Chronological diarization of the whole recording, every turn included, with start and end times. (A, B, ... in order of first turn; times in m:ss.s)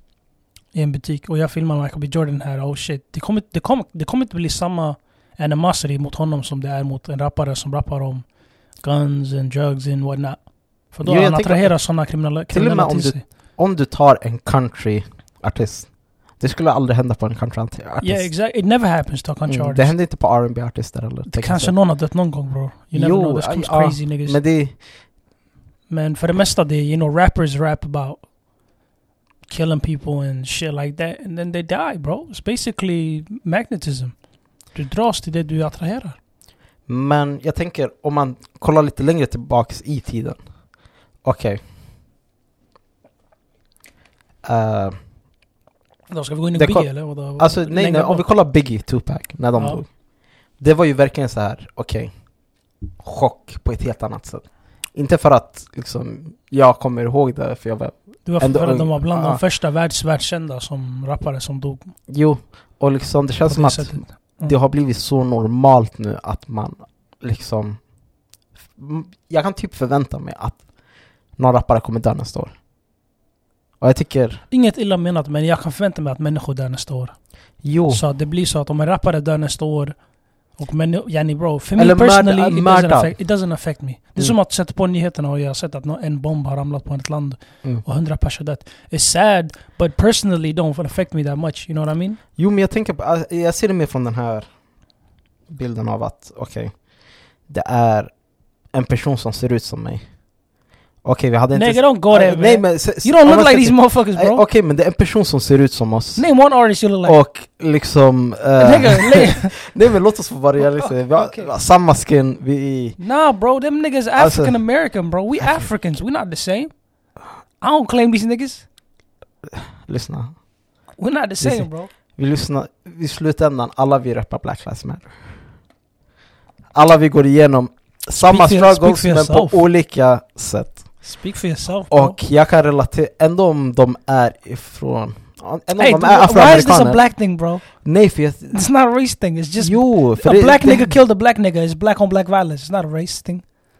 0:00.7-0:13.2 A
0:11.0-0:18.3 B
0:18.0-0:19.9 A
0:19.5-0:21.7 B
0:21.2-0:24.4 A
0:22.9-0:24.8 B
0:25.9-0:28.3 A
0:29.5-0:36.2 A
0:36.9-0:40.4 B
0:41.2-0:41.6 B
0:44.4-0:45.0 B
0:46.1-0:48.2 A
0:46.5-0:49.9 B
0:49.6-0:49.8 A
0:50.6-0:52.1 B
0:53.0-0:59.4 B
0:58.2-1:01.9 A
1:02.1-1:07.8 B
1:03.4-1:04.5 A
1:08.8-1:10.6 B
1:11.4-1:12.6 B
1:13.8-1:14.4 B
1:14.5-1:17.2 A
1:17.6-1:18.0 B
1:17.9-1:20.0 A
1:20.5-1:32.2 A
1:21.8-1:23.2 B
1:32.4-1:34.5 B
1:35.5-1:36.8 B
1:37.5-1:38.1 B
1:38.7-1:40.0 B
1:41.0-1:46.3 B
1:41.5-1:44.4 A
1:46.2-1:47.2 A
1:47.0-1:53.0 B
1:48.6-1:49.6 A
1:50.6-1:51.5 A
1:53.0-1:56.7 A
1:54.2-1:54.6 B
1:57.6-1:58.7 A
1:59.5-2:00.4 B
2:01.0-2:01.9 A
2:01.4-2:05.1 B
2:06.7-2:10.9 B
2:08.1-2:09.6 A
2:11.0-2:12.2 A
2:11.9-2:17.0 B
2:15.8-2:17.8 A
2:17.8-2:18.6 B
2:18.5-2:23.4 A
2:19.6-2:21.0 B